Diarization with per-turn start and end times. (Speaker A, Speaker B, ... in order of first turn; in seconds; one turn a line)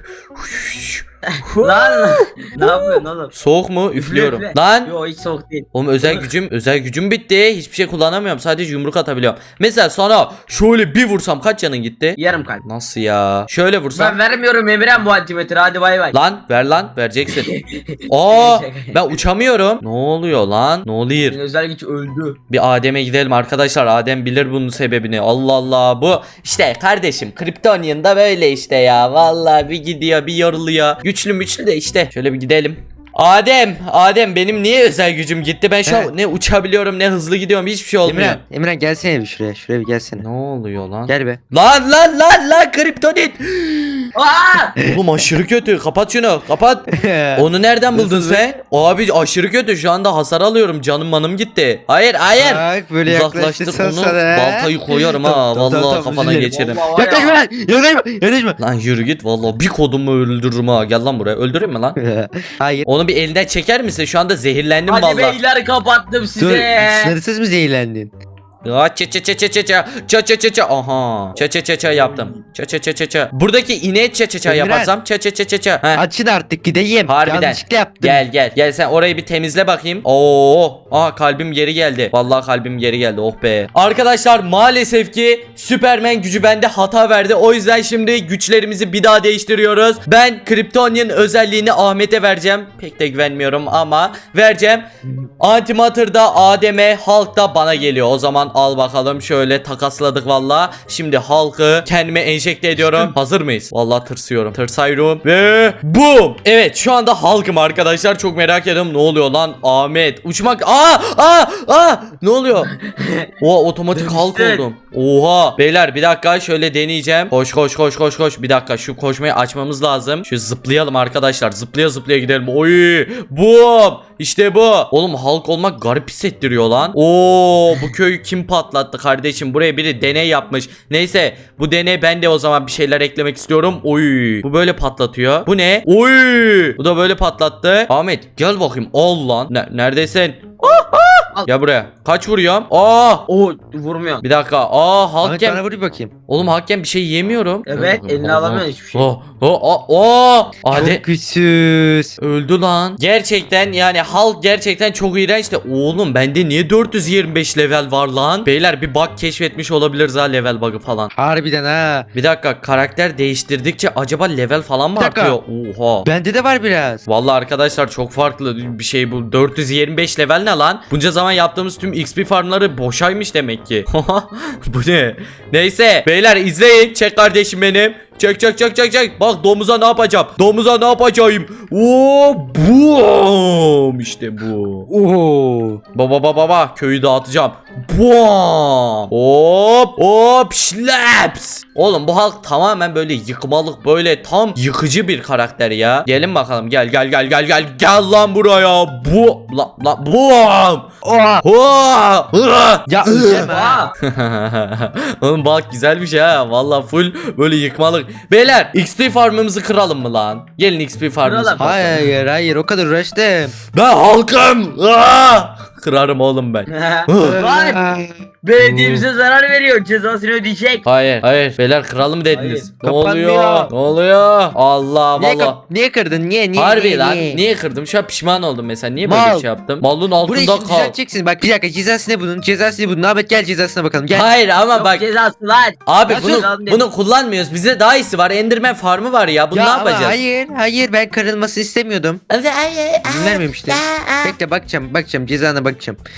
Speaker A: 0.4-4.9
Speaker B: 1.3-3.3
Speaker B: 4.0-6.3
Speaker A: 5.7-14.2
Speaker B: 12.2-12.6
Speaker B: 13.9-16.1
Speaker A: 16.1-17.5
Speaker B: 17.3-19.2
Speaker A: 18.1-21.4
Speaker B: 21.3-22.4
Speaker A: 22.5-38.4
Speaker C: 35.9-36.1
Speaker C: 38.0-40.2
Speaker A: 40.2-44.1
Speaker C: 41.1-41.4
Speaker B: 44.1-44.8
Speaker A: 44.8-56.9
Speaker C: 46.9-48.5
Speaker C: 52.4-58.6
Speaker B: 56.5-57.4
Speaker A: 58.6-62.0
Speaker C: 62.0-62.9
Speaker A: 62.9-65.4
Speaker B: 64.9-67.2
Speaker C: 66.4-68.1
Speaker A: 68.6-76.0
Speaker B: 72.0-72.3
Speaker C: 74.5-74.9
Speaker C: 75.9-78.2
Speaker A: 77.1-94.9
Speaker A: 95.4-112.7
Speaker B: 112.5-113.3
Speaker A: 113.4-143.3
Speaker B: 114.0-114.7
Speaker B: 140.8-141.5
Speaker B: 143.3-144.2
Speaker A: 144.2-145.6
Speaker C: 145.2-146.1
Speaker A: 146.3-151.0
Speaker B: 147.7-149.1
Speaker C: 150.7-152.2
Speaker A: 152.2-161.1
Speaker C: 161.2-162.1
Speaker A: 162.1-166.1
Speaker C: 165.0-165.4
Speaker C: 166.1-167.0
Speaker A: 167.1-184.9
Speaker C: 184.9-185.8
Speaker A: 185.9-200.9
Speaker C: 201.0-201.4
Speaker A: 201.4-203.5
Speaker C: 202.9-203.9
Speaker B: 203.5-203.9
Speaker A: 204.0-212.1
Speaker B: 211.2-211.6
Speaker C: 211.6-213.5
Speaker A: 213.7-217.4
Speaker B: 216.7-217.8
Speaker C: 217.2-218.2
Speaker B: 218.4-220.8
Speaker A: 218.6-219.0
Speaker A: 220.8-225.6
Speaker B: 222.3-222.7
Speaker C: 222.8-223.7
Speaker C: 225.2-227.4
Speaker A: 226.6-230.9
Speaker C: 229.0-229.5
Speaker C: 230.2-234.3
Speaker A: 234.1-235.0
Speaker B: 234.8-236.9
Speaker A: 235.9-240.2
Speaker C: 236.1-236.5
Speaker C: 239.5-242.2
Speaker A: 242.3-244.4
Speaker C: 243.1-246.0